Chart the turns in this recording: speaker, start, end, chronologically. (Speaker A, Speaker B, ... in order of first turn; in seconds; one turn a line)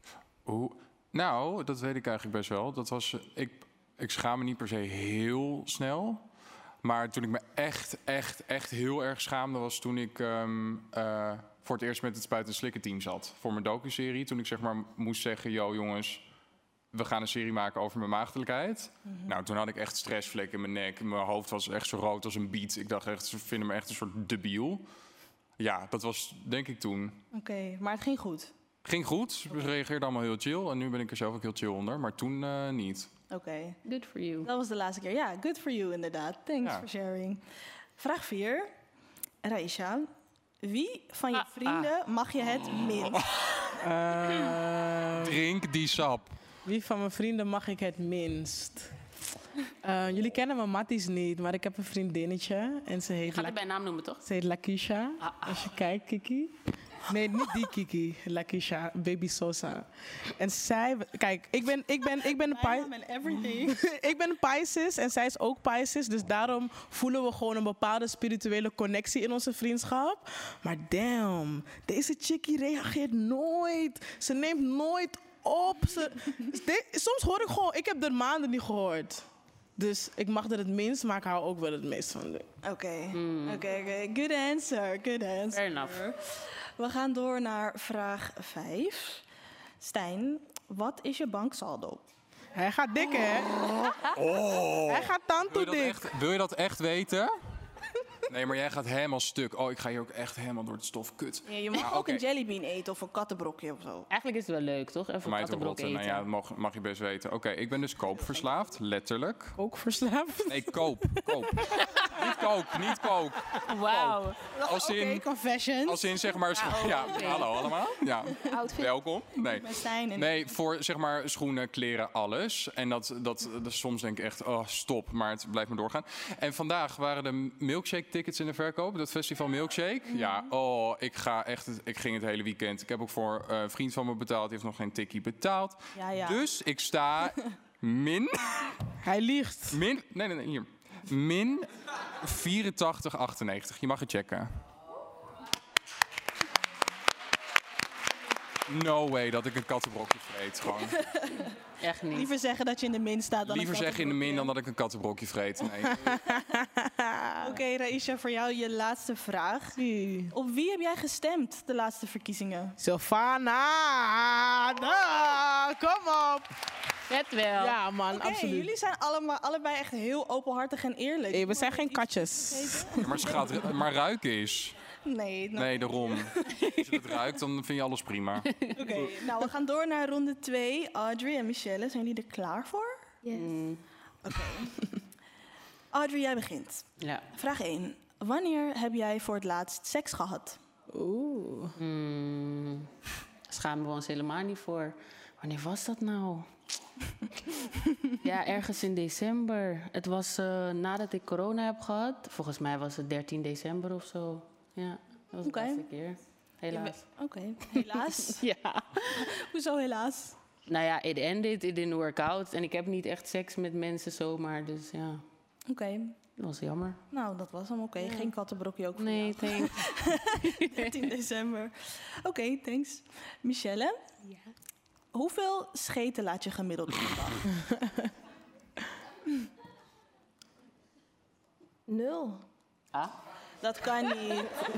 Speaker A: 0.5-6.2
Speaker A: 6.8-16.2
Speaker A: 16.9-24.8
Speaker B: 19.1-19.3
Speaker A: 25.6-27.2
Speaker B: 27.3-28.5
Speaker A: 28.8-33.1
Speaker B: 33.3-33.8
Speaker C: 33.8-34.5
Speaker B: 34.4-37.4
Speaker B: 38.0-38.7
Speaker B: 39.4-40.1
Speaker B: 40.6-43.2
Speaker C: 41.4-41.9
Speaker D: 43.8-45.4
Speaker A: 45.2-46.3
Speaker D: 46.6-48.9
Speaker D: 49.8-53.6
Speaker C: 53.2-54.2
Speaker D: 54.2-62.9
Speaker C: 55.2-55.6
Speaker B: 62.2-63.8
Speaker D: 63.6-79.2
Speaker D: 79.8-82.5
Speaker B: 82.6-89.2
Speaker C: 83.1-83.6
Speaker C: 85.5-86.0
Speaker B: 89.8-92.0
Speaker D: 92.5-93.7
Speaker A: 94.0-97.3
Speaker D: 94.8-96.1
Speaker A: 98.3-102.2
Speaker B: 101.5-104.1
Speaker C: 104.1-106.2
Speaker A: 105.2-109.5
Speaker D: 109.6-111.6
Speaker A: 110.5-115.2
Speaker C: 113.6-114.4
Speaker B: 114.5-116.1
Speaker A: 115.8-138.7
Speaker C: 116.6-117.7
Speaker E: 116.9-117.4
Speaker E: 118.4-119.0
Speaker B: 119.5-120.3
Speaker B: 130.1-130.5
Speaker B: 135.9-136.4
Speaker D: 139.0-139.8
Speaker A: 139.7-141.7
Speaker A: 142.2-144.5
Speaker A: 148.7-151.0
Speaker B: 150.9-151.5
Speaker C: 151.8-152.3
Speaker B: 152.1-154.5
Speaker A: 153.4-156.2
Speaker D: 155.9-157.6
Speaker B: 157.4-162.8
Speaker D: 159.8-160.3
Speaker D: 162.8-166.5
Speaker C: 167.1-167.8
Speaker D: 167.6-168.7
Speaker B: 168.1-173.6
Speaker D: 171.3-173.3
Speaker A: 173.0-174.7
Speaker B: 175.1-176.6
Speaker A: 175.6-178.5
Speaker B: 178.7-183.1
Speaker E: 183.2-183.6
Speaker C: 183.3-183.8
Speaker B: 184.2-184.8
Speaker B: 185.9-190.6
Speaker C: 187.0-187.2
Speaker D: 190.9-191.7
Speaker C: 191.8-192.9
Speaker C: 193.5-196.5
Speaker C: 198.2-207.0
Speaker B: 205.4-205.8
Speaker B: 206.7-208.4
Speaker C: 207.7-209.2
Speaker B: 209.1-210.4
Speaker C: 210.7-215.2
Speaker B: 215.7-216.2
Speaker C: 216.4-217.0
Speaker B: 217.1-224.0
Speaker C: 218.0-218.3
Speaker C: 218.9-221.0
Speaker B: 225.1-227.4
Speaker D: 227.6-228.0
Speaker E: 231.9-232.4
Speaker B: 233.6-234.5